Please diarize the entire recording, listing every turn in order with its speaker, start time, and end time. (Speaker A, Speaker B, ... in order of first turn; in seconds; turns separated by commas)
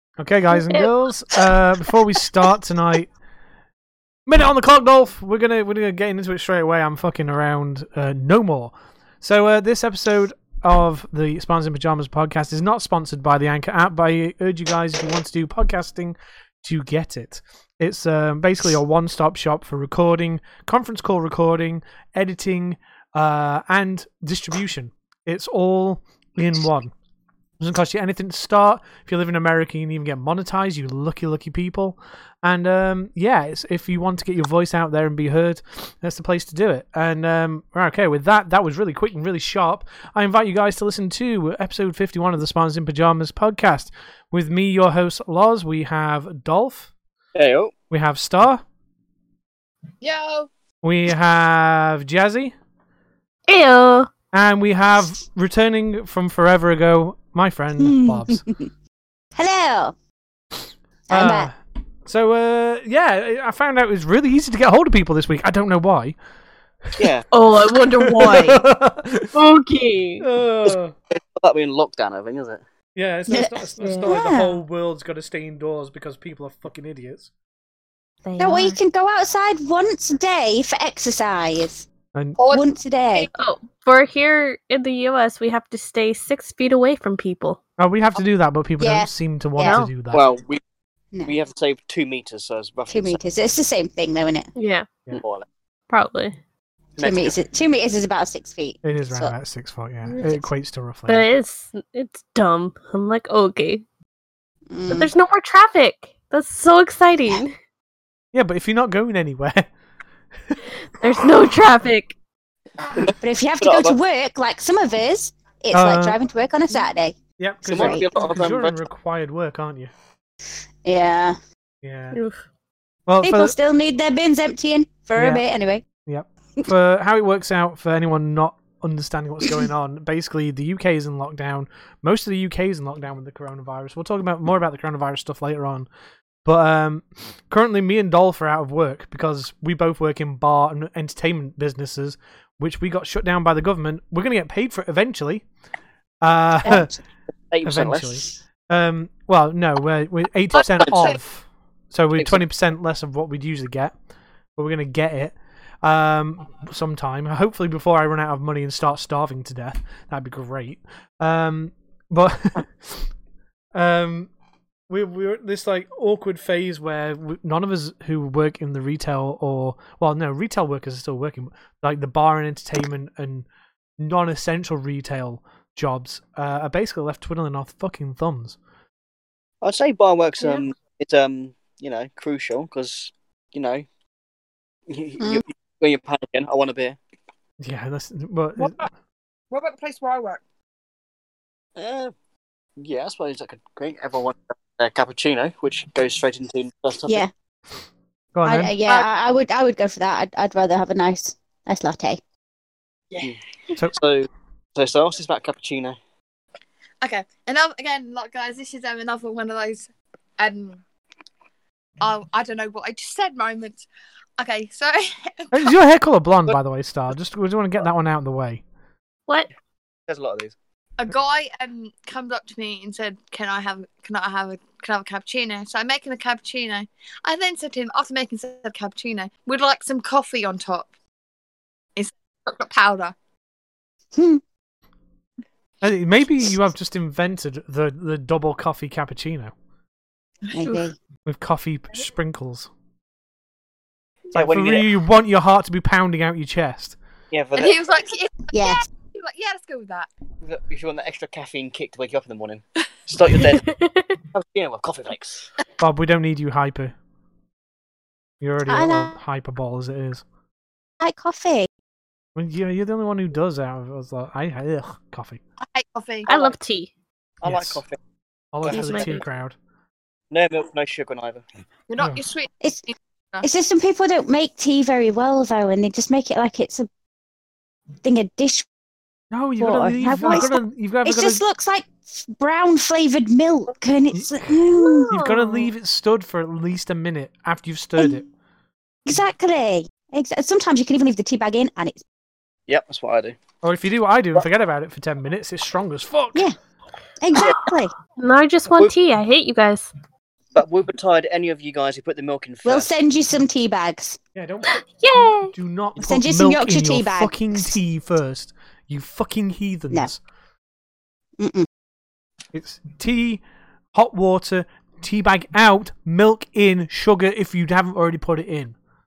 Speaker A: 0.2-3.1, Speaker B: 0.5-1.4, Speaker A: 4.2-26.9, Speaker A: 27.6-46.9, Speaker C: 47.3-47.7, Speaker A: 47.9-48.6, Speaker D: 50.0-50.5, Speaker A: 50.8-52.5, Speaker B: 53.5-54.1, Speaker A: 54.3-58.4, Speaker E: 57.8-58.6, Speaker E: 59.3-59.9, Speaker E: 61.1-61.5, Speaker A: 61.1-66.2, Speaker C: 67.0-67.2, Speaker B: 67.3-68.6, Speaker A: 68.0-69.3, Speaker B: 69.3-70.2, Speaker A: 70.2-70.9, Speaker C: 71.1-72.6, Speaker A: 73.0-77.3, Speaker B: 73.3-74.1, Speaker E: 74.0-74.6, Speaker B: 78.2-78.8, Speaker E: 78.4-81.8, Speaker A: 82.1-82.4, Speaker D: 82.4-83.3, Speaker E: 82.5-83.3, Speaker B: 83.4-87.6, Speaker A: 87.8-90.2, Speaker E: 88.8-89.8, Speaker B: 89.6-89.9, Speaker C: 90.1-90.6, Speaker C: 91.2-93.2, Speaker E: 92.9-94.5, Speaker B: 94.5-94.9, Speaker C: 95.1-95.5, Speaker B: 95.9-96.3, Speaker C: 97.0-97.3, Speaker E: 97.0-99.3, Speaker A: 98.8-101.2, Speaker B: 101.1-103.8, Speaker E: 104.7-105.1, Speaker B: 104.9-107.5, Speaker A: 108.3-109.7, Speaker B: 110.9-112.2, Speaker C: 112.9-114.0, Speaker E: 113.2-118.0, Speaker A: 115.7-116.2, Speaker A: 117.4-119.9, Speaker C: 117.7-118.8, Speaker E: 120.8-121.4, Speaker A: 121.8-122.2, Speaker B: 122.1-122.4, Speaker A: 123.1-123.5, Speaker E: 123.2-125.8, Speaker A: 125.2-125.4, Speaker A: 126.0-135.9, Speaker A: 136.4-145.4, Speaker A: 146.2-146.9, Speaker E: 146.6-147.0, Speaker C: 147.5-148.2, Speaker A: 147.6-153.9, Speaker D: 150.8-151.1, Speaker C: 152.2-152.4, Speaker A: 154.6-163.1, Speaker A: 163.7-164.3, Speaker A: 164.9-173.4, Speaker A: 174.0-178.6, Speaker C: 179.6-183.8, Speaker C: 184.9-187.0, Speaker A: 187.6-188.9, Speaker D: 189.5-190.4, Speaker C: 191.8-192.1, Speaker C: 192.8-197.2, Speaker A: 198.3-198.7, Speaker E: 198.4-202.2, Speaker C: 203.9-206.0, Speaker D: 207.0-209.9, Speaker D: 210.4-210.8, Speaker D: 212.0-213.8, Speaker D: 214.4-215.7, Speaker A: 215.5-218.6, Speaker C: 220.1-220.5, Speaker D: 221.0-230.9, Speaker D: 231.9-233.1, Speaker E: 234.1-234.4, Speaker A: 235.8-239.5, Speaker E: 240.5-240.9, Speaker A: 241.2-242.7, Speaker C: 244.3-244.9, Speaker A: 244.3-247.0, Speaker C: 247.3-247.8, Speaker D: 247.5-250.1, Speaker E: 248.5-248.8, Speaker C: 250.4-253.7, Speaker B: 253.7-254.1, Speaker C: 254.3-255.5, Speaker A: 255.8-256.9, Speaker A: 258.4-260.2, Speaker E: 258.7-259.2, Speaker E: 261.0-261.7, Speaker A: 262.3-265.4, Speaker D: 265.7-266.5, Speaker B: 266.3-266.9, Speaker C: 267.4-268.0, Speaker A: 267.4-267.8, Speaker A: 268.5-269.6, Speaker C: 268.6-269.2, Speaker B: 268.7-269.2, Speaker C: 270.3-271.4, Speaker D: 271.9-273.5, Speaker E: 273.4-276.9, Speaker E: 278.0-278.7, Speaker A: 279.3-281.4, Speaker E: 279.6-285.1, Speaker B: 280.0-280.4, Speaker A: 284.1-284.6, Speaker B: 284.8-285.7, Speaker A: 285.1-288.3, Speaker E: 289.1-292.0, Speaker C: 292.7-293.4, Speaker A: 293.6-296.5, Speaker E: 297.2-297.9, Speaker B: 298.2-299.9, Speaker C: 300.5-302.9, Speaker E: 302.6-304.2, Speaker A: 304.3-310.2, Speaker B: 304.8-305.5, Speaker E: 306.0-307.8, Speaker E: 311.4-311.7, Speaker A: 312.5-318.8